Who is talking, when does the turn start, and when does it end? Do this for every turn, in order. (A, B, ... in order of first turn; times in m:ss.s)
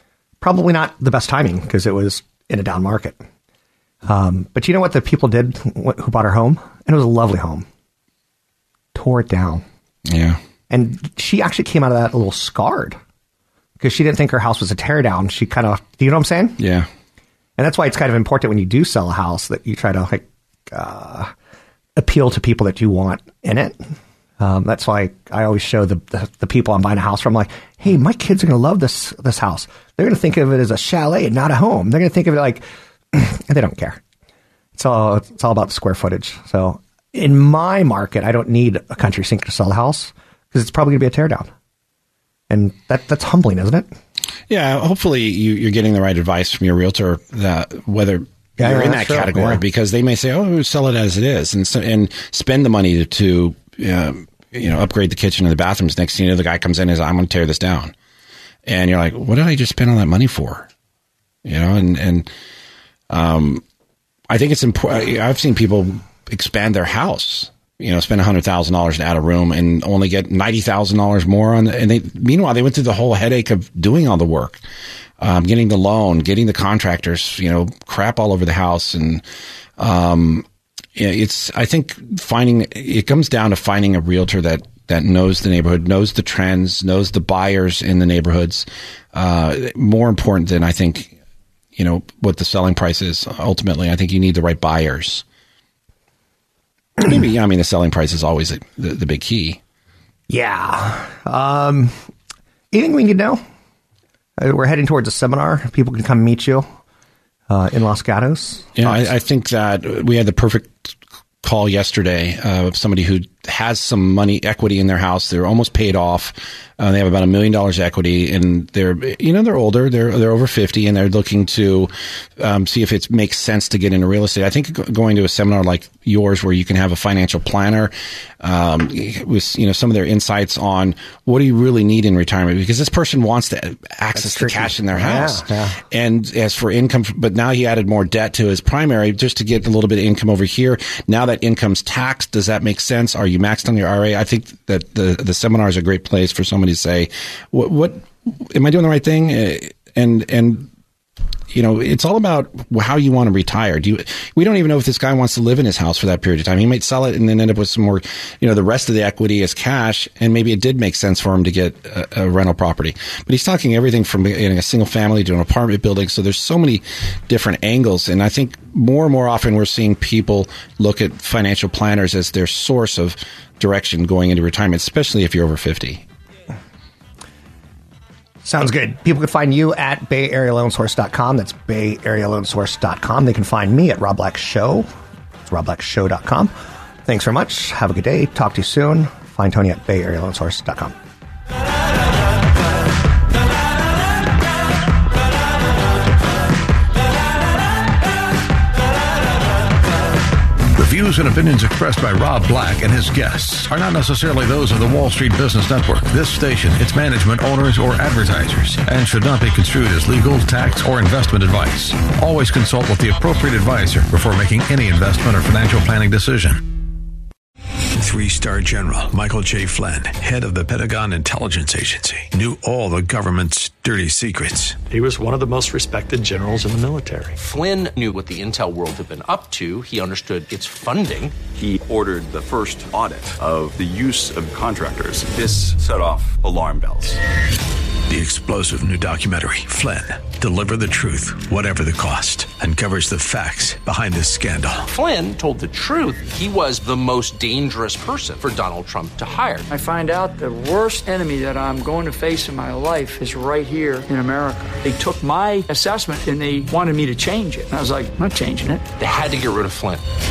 0:00.4-0:03.2 A
0:04.0-0:07.6 A
0:08.9-0:09.6 A
0:10.0-0:10.4 B
0:10.7-0:13.0 A
0:13.8-0:16.6 A
0:16.6-0:16.9 B
0:17.6-0:21.3 A
0:22.0-0:34.0 A
0:34.7-0:41.5 A
0:42.5-0:43.9 A
0:44.5-0:57.9 B
0:48.6-0:49.6 A
0:58.6-1:00.7 B
1:01.4-1:02.3 B
1:03.1-1:03.6 B
1:04.3-1:14.6 B
1:15.2-1:19.2 B
1:19.8-1:31.1 B
1:31.8-1:35.2 B
1:37.0-1:39.6 B
1:40.3-1:42.0 A
1:42.7-1:43.4 A
1:44.4-1:46.7 A
1:47.5-1:49.0 A
1:48.8-2:30.7 B
2:14.1-2:15.8 A
2:31.5-2:56.0 B
2:58.4-3:04.9 A
3:05.5-3:06.5 A
3:07.0-3:10.9 A
3:20.8-3:36.6 C
3:37.9-3:44.8 D
3:44.9-3:47.4 E
3:47.4-3:51.4 F
3:51.5-3:57.2 G
3:58.1-4:04.9 D
4:04.8-4:09.7 F
4:09.7-4:18.8 H
4:19.0-4:20.0 F